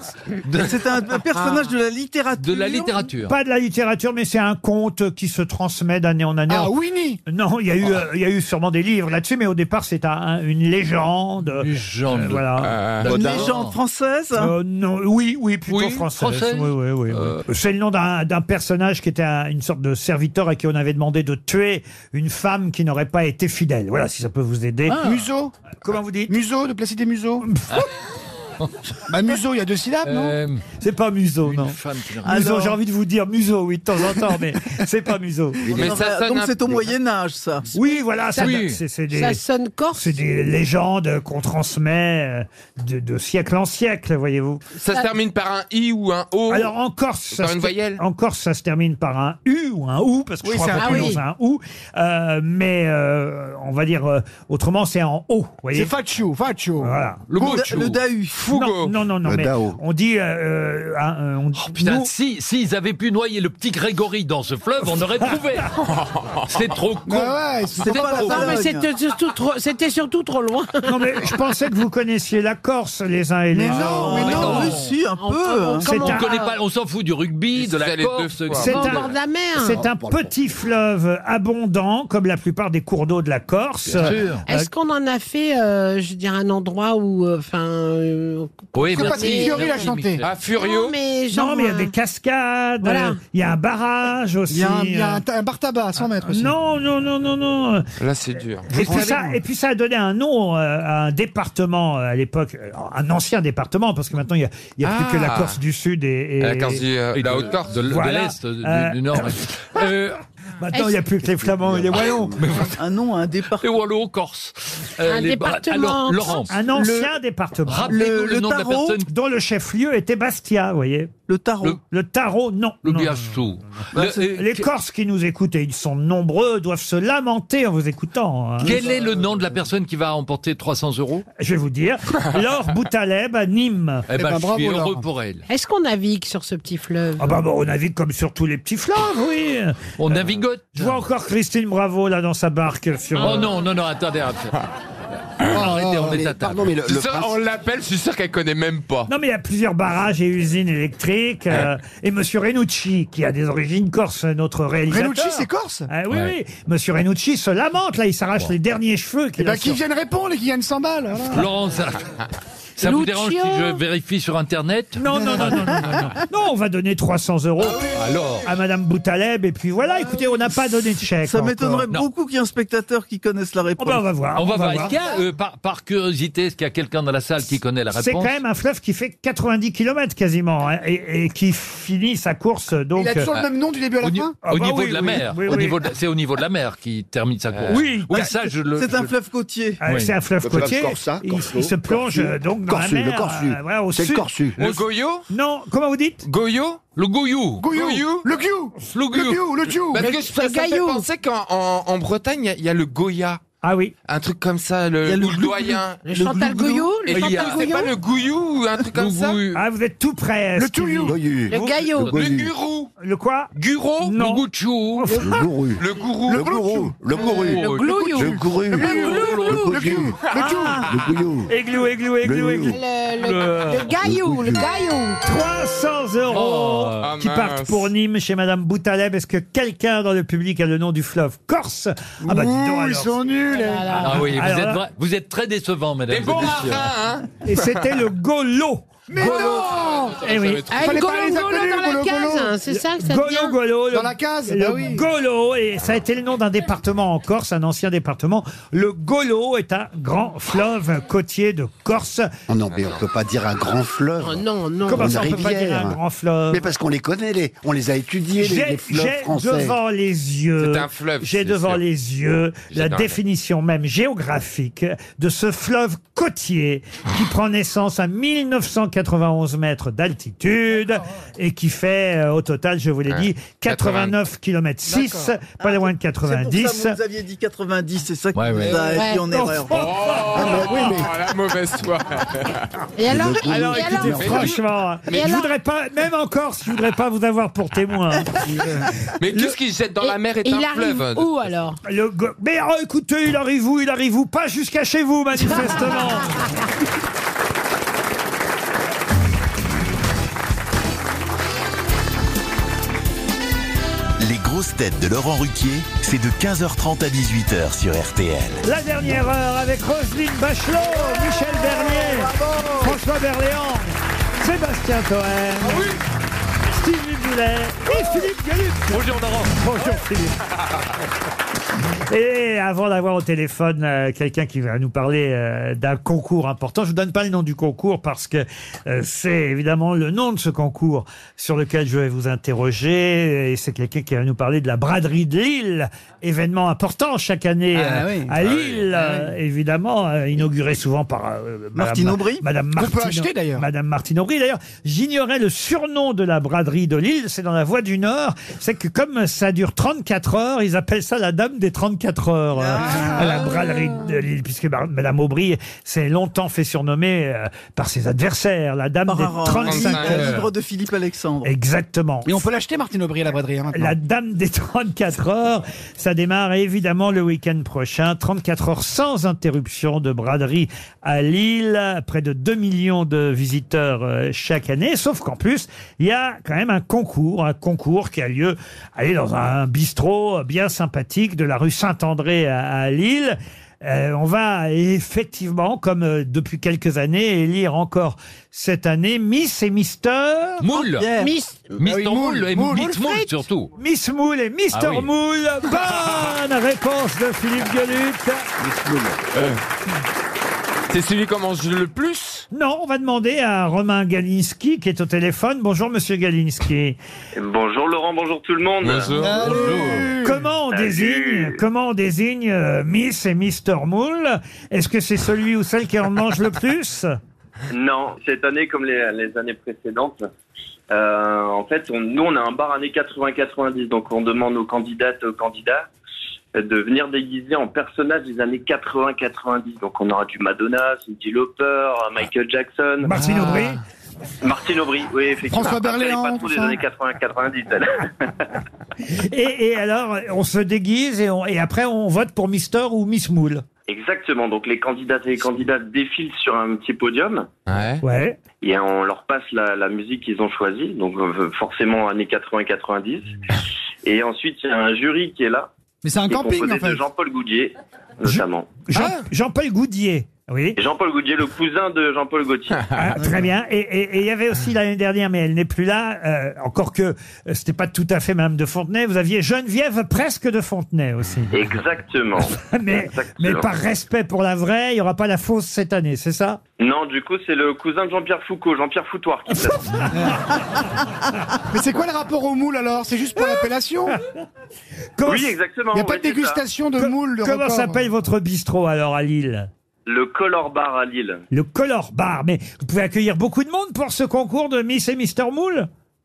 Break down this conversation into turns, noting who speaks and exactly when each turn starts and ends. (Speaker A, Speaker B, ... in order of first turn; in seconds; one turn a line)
Speaker A: 0.4-0.8
Speaker B: 0.5-3.1
Speaker A: 2.4-3.3
Speaker C: 3.3-6.7
Speaker D: 6.5-7.2
Speaker C: 7.3-12.8
Speaker A: 11.6-13.8
Speaker E: 12.6-13.4
Speaker B: 13.1-14.5
Speaker C: 14.3-25.1
Speaker A: 15.7-17.4
Speaker D: 25.0-25.5
Speaker C: 25.8-26.4
Speaker D: 26.3-27.4
Speaker D: 29.1-30.4
Speaker A: 30.0-30.6
Speaker C: 30.8-35.7
Speaker A: 31.4-32.5
Speaker B: 32.2-32.8
Speaker F: 35.6-36.0
Speaker E: 35.7-36.7
Speaker B: 35.8-37.7
Speaker C: 37.7-44.6
Speaker G: 38.4-40.2
Speaker A: 38.4-38.8
Speaker E: 44.8-46.7
Speaker C: 46.5-55.9
Speaker E: 47.3-48.0
Speaker D: 50.4-51.1
Speaker G: 50.7-51.2
Speaker D: 55.7-57.6
Speaker C: 56.8-57.3
Speaker A: 57.3-58.0
Speaker B: 57.4-58.4
Speaker E: 58.4-58.9
Speaker C: 58.5-62.1
Speaker F: 59.2-59.8
Speaker A: 61.6-65.7
Speaker E: 65.8-66.5
Speaker A: 66.5-68.6
Speaker D: 67.1-68.5
Speaker B: 67.8-68.9
Speaker G: 68.0-71.0
Speaker C: 70.8-74.6
Speaker D: 73.5-74.7
Speaker B: 73.8-75.9
Speaker A: 74.0-74.9
Speaker G: 74.3-74.6
Speaker G: 75.2-76.6
Speaker C: 75.8-76.4
Speaker A: 75.9-79.1
Speaker E: 77.6-79.0
Speaker G: 78.6-79.8
Speaker C: 78.6-84.7
Speaker F: 79.6-80.3
Speaker A: 83.9-84.5
Speaker G: 84.5-89.9
Speaker A: 88.8-90.4
Speaker D: 89.0-90.2
Speaker E: 90.2-91.0
Speaker G: 90.5-91.9
Speaker C: 91.3-95.2
Speaker G: 92.8-93.2
Speaker D: 94.5-96.5
Speaker C: 96.2-97.9
Speaker E: 98.0-99.1
Speaker C: 98.7-106.8
Speaker D: 98.8-99.4
Speaker E: 104.8-105.6
Speaker E: 106.4-107.8
Speaker A: 107.1-110.2
Speaker C: 107.9-109.5
Speaker C: 110.6-112.4
Speaker F: 111.2-112.7
Speaker A: 112.4-112.8
Speaker B: 112.8-113.7
Speaker A: 113.6-116.5
Speaker G: 115.1-116.5
Speaker C: 116.5-118.0
Speaker B: 116.8-117.0
Speaker A: 117.7-119.1
Speaker B: 117.9-119.0
Speaker C: 119.0-121.1
Speaker B: 121.3-121.8
Speaker C: 121.9-123.4
Speaker A: 122.8-124.7
Speaker B: 124.0-124.2
Speaker C: 124.3-128.8
Speaker A: 128.6-131.3
Speaker C: 131.4-134.1
Speaker A: 134.1-135.4
Speaker D: 134.2-135.1
Speaker G: 135.5-137.4
Speaker C: 137.2-139.9
Speaker A: 140.0-141.0
Speaker C: 140.8-143.5
Speaker A: 143.2-144.6
Speaker G: 143.2-143.5
Speaker A: 145.5-146.7
Speaker D: 145.5-146.2
Speaker F: 145.9-147.4
Speaker E: 146.9-149.1
Speaker C: 149.1-159.8
Speaker D: 154.9-155.9
Speaker D: 159.4-161.5
Speaker A: 161.3-162.1
Speaker A: 162.8-166.1
Speaker G: 162.8-163.8
Speaker C: 165.0-167.9
Speaker D: 165.1-166.1
Speaker A: 167.8-168.5
Speaker C: 168.4-171.8
Speaker B: 171.2-174.1
Speaker C: 173.8-175.0
Speaker A: 174.3-178.4
Speaker C: 177.9-183.3
Speaker D: 183.0-184.3
Speaker A: 184.0-189.1
Speaker C: 184.4-185.8
Speaker C: 187.7-188.3
Speaker B: 188.8-189.8
Speaker C: 189.8-196.3
Speaker A: 189.8-190.1
Speaker F: 190.4-194.6
Speaker E: 194.6-195.2
Speaker E: 196.2-196.8
Speaker A: 197.0-197.7
Speaker D: 197.6-200.1
Speaker E: 197.7-198.3
Speaker A: 198.9-199.4
Speaker E: 199.9-203.4
Speaker G: 200.0-201.1
Speaker C: 203.6-203.9
Speaker E: 204.1-206.2
Speaker B: 205.1-206.9
Speaker G: 206.0-207.9
Speaker E: 207.0-209.4
Speaker A: 207.1-207.7
Speaker A: 208.9-209.6
Speaker C: 209.5-211.8
Speaker D: 210.6-211.2
Speaker F: 211.1-212.5
Speaker G: 211.5-212.2
Speaker E: 212.1-212.9
Speaker C: 213.0-214.4
Speaker E: 213.6-214.1
Speaker A: 213.6-215.1
Speaker F: 215.2-220.2
Speaker E: 215.8-216.5
Speaker D: 216.3-220.9
Speaker G: 217.2-219.8
Speaker A: 217.4-218.1
Speaker A: 218.8-219.8
Speaker F: 220.8-221.5
Speaker C: 221.5-222.8
Speaker F: 222.2-222.8
Speaker G: 222.7-225.2
Speaker F: 224.0-224.7
Speaker C: 225.2-233.1
Speaker A: 226.3-227.1
Speaker E: 227.0-227.9
Speaker D: 232.2-234.1
Speaker G: 233.5-234.3
Speaker A: 234.0-236.9
Speaker C: 234.3-234.8
Speaker E: 236.1-237.9
Speaker C: 237.4-240.7
Speaker D: 239.1-240.2
Speaker E: 239.2-241.0
Speaker G: 240.7-243.6
Speaker D: 240.8-242.8
Speaker C: 243.0-252.3
Speaker D: 243.9-245.1
Speaker F: 252.5-256.0
Speaker E: 252.7-253.0
Speaker G: 254.2-255.2
Speaker C: 254.9-256.7
Speaker F: 256.5-259.8
Speaker C: 258.4-277.0
Speaker E: 260.6-261.8
Speaker E: 262.7-263.2
Speaker E: 273.1-274.2
Speaker D: 274.9-275.3
Speaker B: 275.6-279.9
Speaker A: 278.3-279.1
Speaker G: 278.9-279.3
Speaker C: 279.3-280.8
Speaker E: 279.7-282.6
Speaker D: 280.3-281.1
Speaker G: 283.0-284.6
Speaker F: 283.1-284.5
Speaker C: 283.5-288.4
Speaker E: 284.2-285.4
Speaker G: 285.1-285.5
Speaker D: 288.6-288.8
Speaker E: 289.2-291.4
Speaker G: 290.0-291.8
Speaker C: 291.9-296.4
Speaker G: 295.4-296.5
Speaker H: 304.2-308.6
Speaker C: 308.6-313.9
Speaker D: 311.3-312.8
Speaker B: 312.0-312.7
Speaker C: 314.4-315.9
Speaker C: 316.7-320.4
Speaker A: 318.9-319.5
Speaker C: 322.1-360.4
Speaker D: 337.7-338.4
Speaker D: 338.9-339.3
Speaker B: 341.8-342.4
Speaker D: 342.8-343.7
Speaker B: 352.6-353.5
Speaker D: 352.9-353.5
Speaker B: 359.1-361.5
Speaker E: 359.6-360.5
Speaker C: 361.4-362.4
Speaker D: 362.2-364.0
Speaker C: 363.7-390.6
Speaker A: 390.6-391.1
Speaker B: 391.0-391.3
Speaker G: 391.2-391.8
Speaker A: 391.8-393.7
Speaker D: 391.8-393.0
Speaker G: 392.8-393.3
Speaker C: 393.8-398.5
Speaker A: 394.7-395.1
Speaker E: 399.3-399.6
Speaker E: 400.9-402.5
Speaker C: 402.5-407.0
Speaker I: 407.4-409.2
Speaker E: 408.8-409.8
Speaker D: 409.2-410.4
Speaker A: 409.2-410.1
Speaker C: 410.2-417.1
Speaker I: 410.7-411.6
Speaker I: 417.7-420.3
Speaker I: 420.9-425.9
Speaker I: 426.6-433.2
Speaker C: 433.0-433.8
Speaker D: 433.1-433.7
Speaker I: 434.4-438.1
Speaker D: 435.5-436.8
Speaker C: 439.1-443.6
Speaker I: 443.9-447.5
Speaker E: 447.7-448.0
Speaker C: 448.0-448.4
Speaker I: 448.6-453.4
Speaker I: 454.0-455.7
Speaker D: 456.0-457.0
Speaker I: 456.3-458.9
Speaker C: 458.3-460.8
Speaker E: 458.9-459.2
Speaker I: 460.8-462.9
Speaker C: 462.9-471.6
Speaker I: 471.5-473.7
Speaker C: 472.5-476.6
Speaker I: 476.8-480.1
Speaker C: 479.6-480.1
Speaker D: 480.1-480.4
Speaker D: 481.7-484.2
Speaker C: 485.2-485.6
Speaker I: 485.2-486.6
Speaker D: 485.9-488.1
Speaker C: 487.0-489.7
Speaker I: 490.1-491.4
Speaker C: 491.5-495.9